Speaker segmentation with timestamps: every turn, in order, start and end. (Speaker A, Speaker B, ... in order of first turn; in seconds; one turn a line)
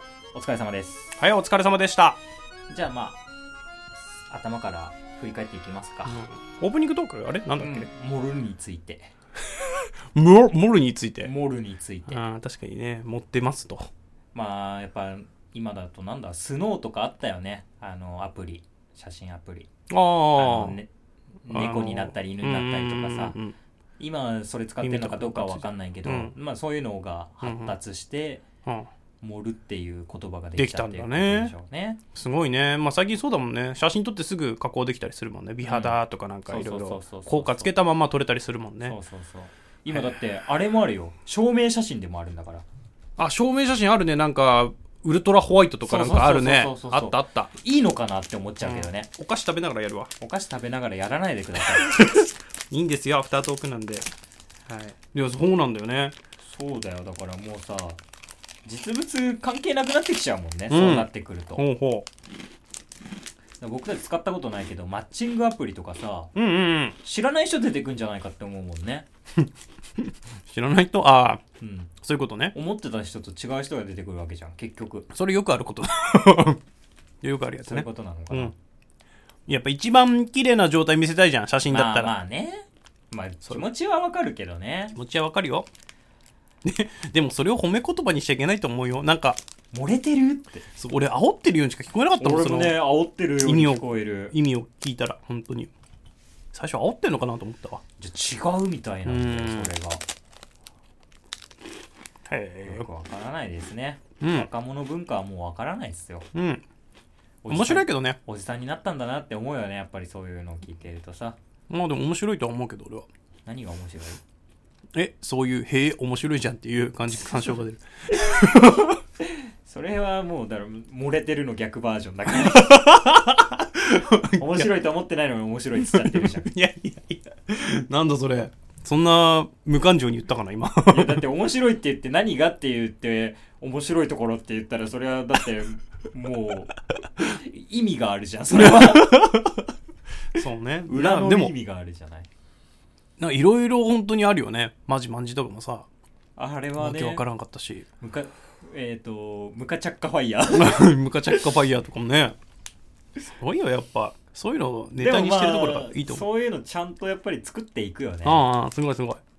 Speaker A: 0.3-1.2
Speaker B: 1.2-2.2
Speaker A: 2.7-3.2
Speaker A: 4.3-6.2
Speaker B: 6.0-7.9
Speaker A: 7.6-9.1
Speaker B: 9.7-11.3
Speaker A: 11.2-12.2
Speaker B: 12.1-13.9
Speaker A: 14.3-19.7
Speaker B: 19.9-20.8
Speaker A: 20.3-20.9
Speaker A: 21.4-23.4
Speaker B: 21.5-23.5
Speaker A: 24.0-28.4
Speaker B: 24.8-26.4
Speaker B: 27.4-27.8
Speaker A: 29.2-32.0
Speaker B: 30.6-31.5
Speaker B: 32.1-39.0
Speaker A: 35.6-37.7
Speaker A: 38.8-42.6
Speaker B: 43.2-47.5
Speaker A: 45.8-49.1
Speaker B: 48.6-50.1
Speaker A: 50.2-51.9
Speaker B: 51.7-54.1
Speaker A: 54.7-54.9
Speaker B: 55.1-56.1
Speaker A: 56.4-58.0
Speaker A: 58.6-61.6
Speaker B: 60.7-62.1
Speaker A: 63.6-66.3
Speaker B: 66.3-67.0
Speaker A: 67.0-69.1
Speaker B: 70.0-71.4
Speaker A: 71.6-71.9
Speaker B: 72.0-72.5
Speaker A: 72.5-75.1
Speaker B: 75.1-76.6
Speaker B: 77.2-78.5
Speaker A: 77.6-78.5
Speaker B: 79.5-82.1
Speaker A: 81.7-85.0
Speaker B: 84.9-85.7
Speaker B: 86.6-89.4
Speaker A: 89.7-90.7
Speaker B: 90.7-92.8
Speaker A: 92.2-94.3
Speaker B: 93.4-95.7
Speaker B: 96.5-97.8
Speaker A: 98.0-100.0
Speaker B: 99.0-99.7
Speaker B: 102.3-102.8
Speaker A: 102.6-106.3
Speaker B: 104.2-104.5
Speaker B: 106.3-106.6
Speaker A: 107.4-111.4
Speaker B: 107.5-108.2
Speaker B: 111.7-113.1
Speaker A: 113.5-114.2
Speaker B: 114.9-119.0
Speaker A: 119.6-122.7
Speaker B: 122.3-124.7
Speaker A: 124.3-126.5
Speaker B: 125.8-131.2
Speaker A: 130.9-139.2
Speaker B: 138.5-139.6
Speaker B: 140.3-141.5
Speaker A: 140.9-142.3
Speaker B: 143.2-145.9
Speaker A: 146.4-147.2
Speaker B: 146.8-147.8
Speaker A: 148.0-150.9
Speaker B: 150.5-152.3
Speaker B: 153.4-156.2
Speaker A: 155.0-158.4
Speaker B: 158.2-159.2